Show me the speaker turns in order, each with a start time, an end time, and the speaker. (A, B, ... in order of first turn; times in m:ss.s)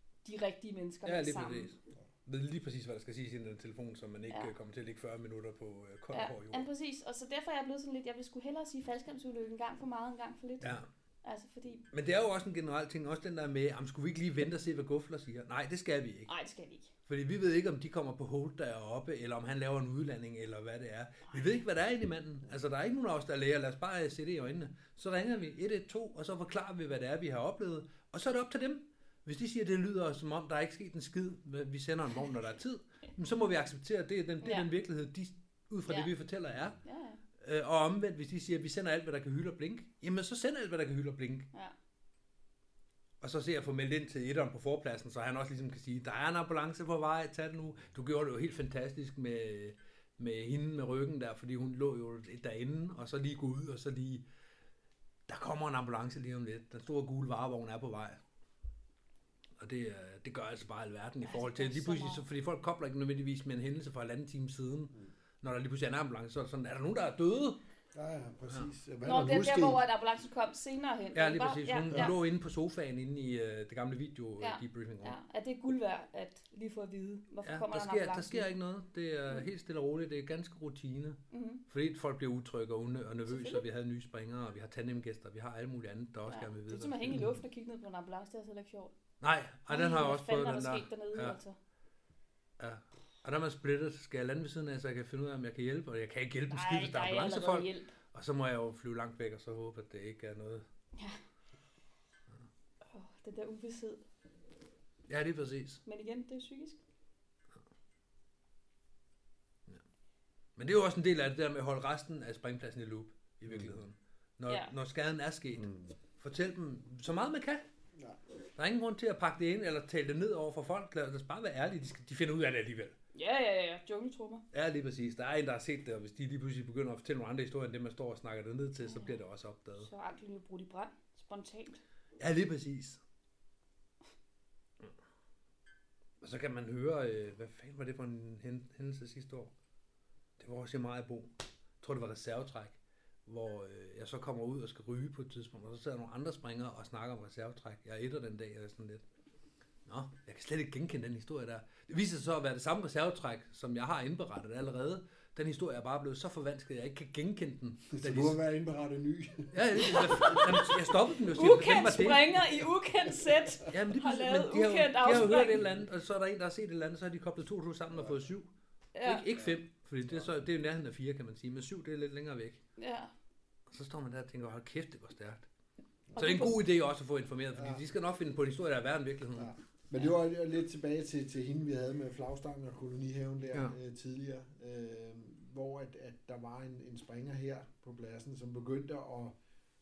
0:00.2-0:01.7 A
0:01.0-0:06.7 B
0:06.1-0:11.8 A
0:10.6-0:10.9 B
0:11.9-0:16.3 B
0:16.3-0:16.9 A
0:17.1-0:36.8 B
0:34.4-0:34.7 A
0:36.8-0:37.2 A
0:37.4-0:41.5 B
0:43.2-0:54.2 B
0:55.3-0:58.2 B
0:59.6-1:07.6 B
1:01.2-1:02.2 A
1:07.9-1:09.8 C
1:09.0-1:12.2 A
1:11.2-1:15.2 B
1:14.4-1:18.5 A
1:17.4-1:27.2 B
1:21.3-1:21.6 A
1:23.3-1:23.6 A
1:26.3-1:28.9 A
1:29.2-1:31.4 B
1:29.7-1:31.6 A
1:32.6-1:40.7 B
1:36.5-1:37.9 A
1:42.9-1:44.0 A
1:45.1-1:45.8 B
1:45.9-1:46.8 A
1:50.6-1:57.6 B
1:54.5-1:54.7 A
1:55.6-1:55.9 C
1:58.6-2:03.0 B
2:03.1-2:04.4 A
2:04.5-2:09.9 B
2:08.9-2:09.2 A
2:09.8-2:11.8 A
2:12.2-2:13.0 B
2:16.2-2:19.5 B
2:20.4-2:29.0 B
2:29.9-2:38.4 B
2:37.9-2:40.7 C
2:39.5-2:42.3 B
2:40.0-2:45.6 A
2:42.4-2:43.7 C
2:43.7-2:48.5 B
2:47.9-2:48.2 C
2:49.0-2:49.3 A
2:49.0-2:52.6 B
2:52.8-2:53.1 A
2:53.7-2:55.5 B
2:56.2-2:56.6 A
2:56.2-2:59.5 B
2:57.5-2:57.8 C
2:59.4-3:09.4 C